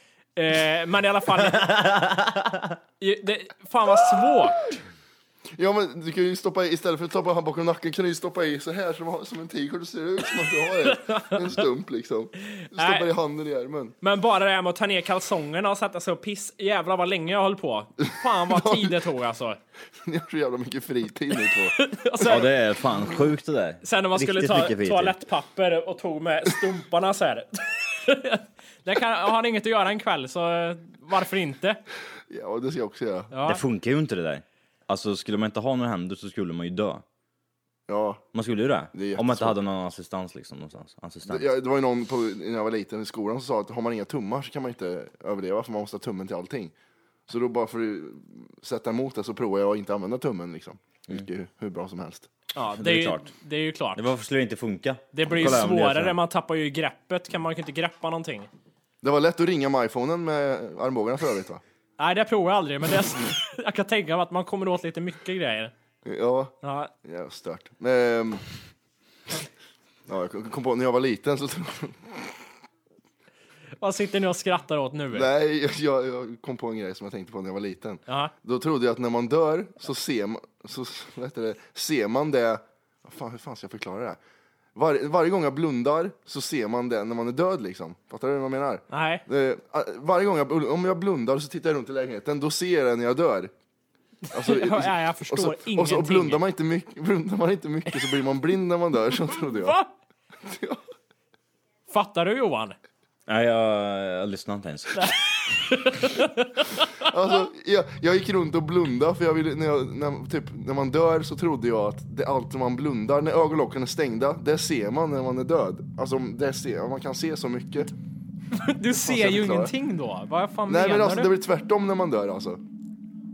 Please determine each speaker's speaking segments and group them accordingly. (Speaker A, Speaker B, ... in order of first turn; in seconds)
Speaker A: 0.4-1.9, 3.0-4.7, 10.9-11.4, 12.5-13.1, 14.0-19.6, 21.8-22.5, 23.8-31.8, 33.3-33.6, 52.5-54.0, 55.1-58.5, 62.0-65.7, 66.6-66.9, 73.8-75.3, 78.1-78.3, 88.9-89.2, 94.3-96.4, 99.3-99.9, 101.9-102.8, 105.0-106.9, 118.5-121.3
Speaker B: 1.4-2.8, 22.2-25.2, 33.5-37.0, 38.3-41.5, 52.8-53.3, 54.0-56.2, 103.3-105.1
Speaker C: 5.6-14.0, 18.5-19.0, 20.0-22.4, 32.3-33.3, 37.9-38.2, 38.9-39.5, 41.3-46.7, 47.3-52.3, 59.0-61.6, 66.1-68.5, 70.1-72.2, 75.1-84.2, 84.8-93.5, 94.3-99.8, 100.5-100.8, 107.0-117.9, 119.0-119.7, 120.7-122.6